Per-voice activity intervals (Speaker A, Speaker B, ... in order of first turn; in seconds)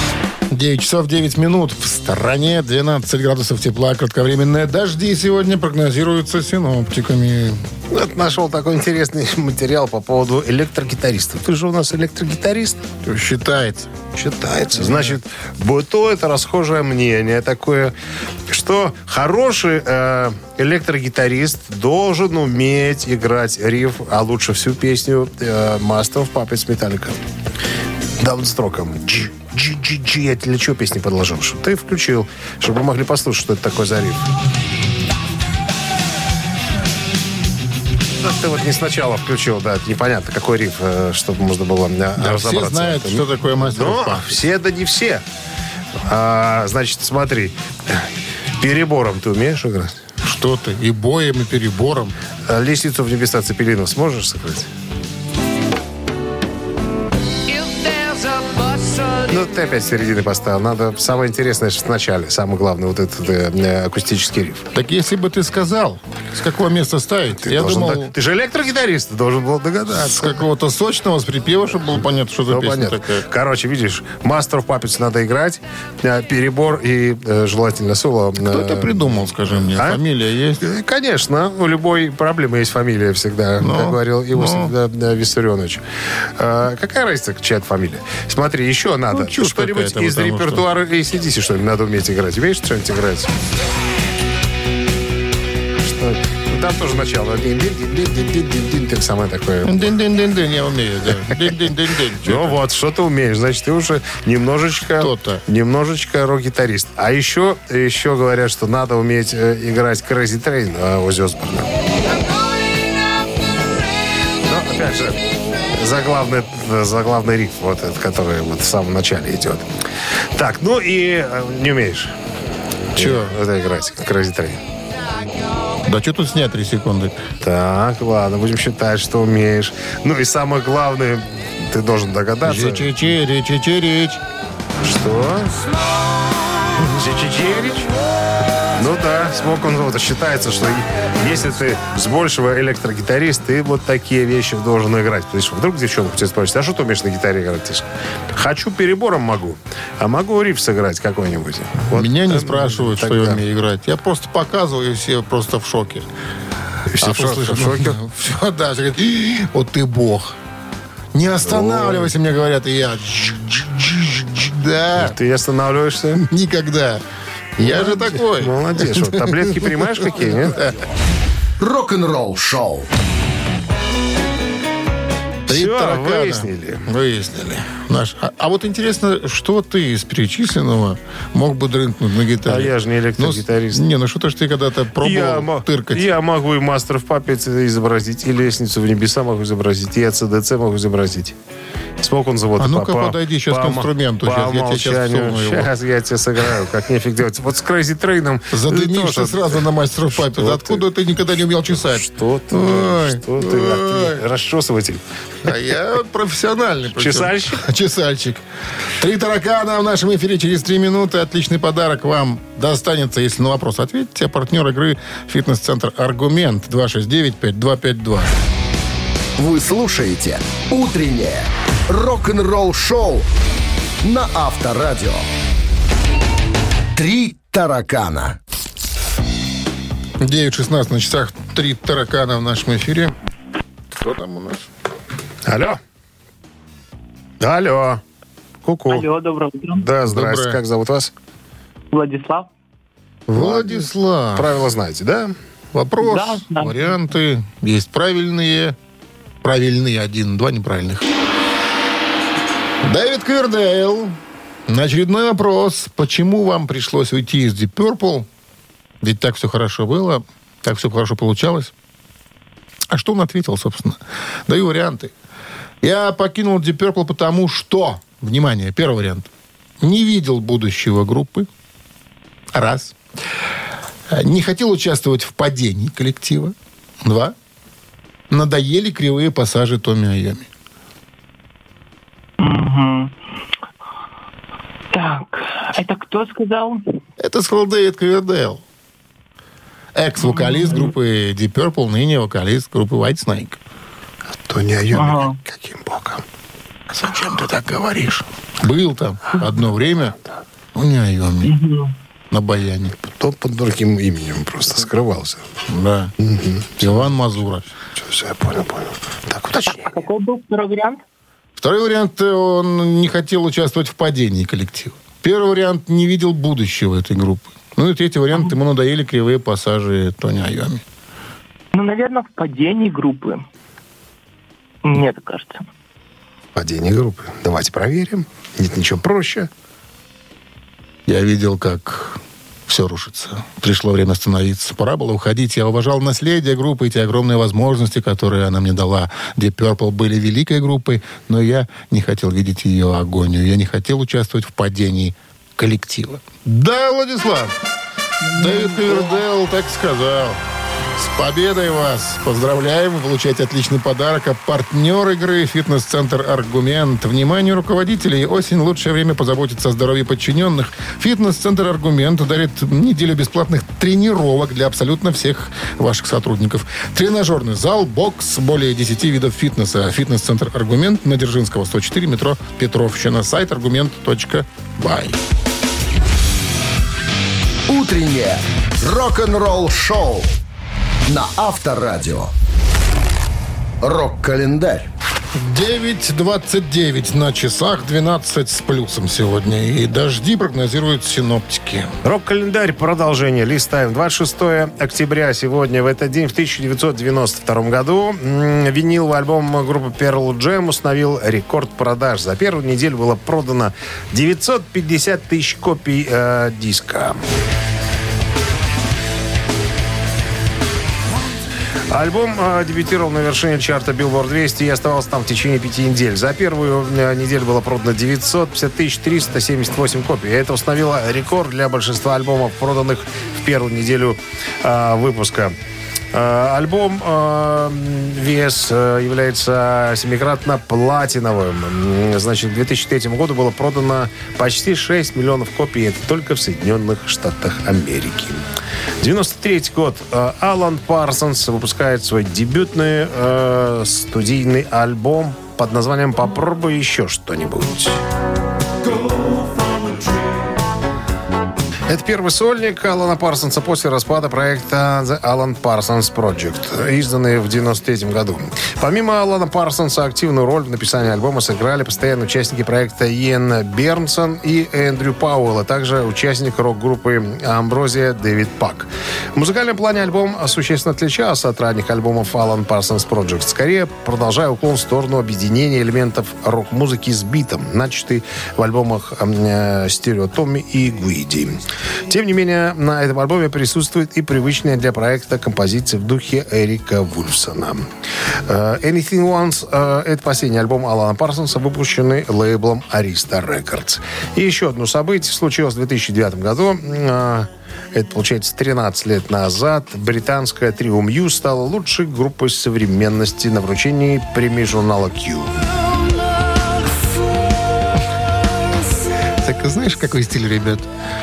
Speaker A: 0.5-7.7, 13.0-13.9, 14.8-15.2, 42.2-44.4, 50.2-52.1, 64.7-68.1, 69.9-73.2, 78.4-80.6, 83.6-84.7, 89.1-90.7, 99.6-102.6, 105.0-105.4, 123.0-123.3, 125.8-127.2, 132.4-134.2, 151.9-156.1, 157.0-160.3, 161.1-165.2, 166.2-167.0, 167.6-170.8, 175.5-186.1, 192.6-195.7, 198.5-204.2, 205.4-208.4, 209.0-218.3, 230.2-233.1, 233.9-234.7, 240.1-240.6, 243.3-244.6, 245.7-248.8, 249.4-251.1, 252.8-258.3, 259.0-261.7, 262.9-265.1, 265.8-271.5, 272.5-273.0, 274.1-277.3, 278.3-280.5, 287.2-288.6, 289.9-293.6, 296.9-300.1, 300.7-301.6, 302.3-302.9, 305.7-306.1, 306.8-307.7, 311.6-320.8, 331.1-347.5, 348.3-350.4, 350.9-375.2, 385.3-391.9, 509.4-510.9
Speaker B: 7.9-12.8, 14.1-17.9, 18.5-27.2, 28.2-34.3, 38.2-45.2, 46.0-50.0, 52.5-54.7, 57.5-64.7, 67.4-70.4, 72.5-79.1, 79.7-80.0, 80.6-85.8, 86.4-93.3, 95.8-99.9, 102.2-111.7, 114.4-115.2, 115.8-119.7, 120.3-122.1, 122.9-124.6, 127.4-132.9, 134.8-135.6, 136.8-137.9, 138.8-153.4, 156.9-158.0, 161.4-162.1, 164.9-166.2, 167.6-170.7, 175.5-176.9, 182.4-183.8, 185.0-191.3, 192.0-200.8, 201.7-205.5, 206.9-207.6, 235.4-235.8, 237.4-238.0, 238.6-239.1, 239.8-241.1, 243.3-245.3, 294.4-296.2, 303.0-305.4, 306.2-307.2, 307.9-309.9, 326.5-329.5, 392.0-407.2, 411.9-425.6, 426.1-438.4, 439.0-448.0, 451.9-487.9, 488.4-505.5
Speaker C: 171.6-172.9, 219.4-223.3, 224.0-225.3, 226.9-228.4, 377.7-380.4, 381.1-382.3, 383.8-384.9
Speaker D: 238.9-239.8, 241.9-242.5, 246.0-246.9, 282.4-283.1, 284.9-286.8, 294.9-295.4, 301.4-301.9, 309.7-311.0, 321.7-323.4, 324.8-325.6, 348.3-348.9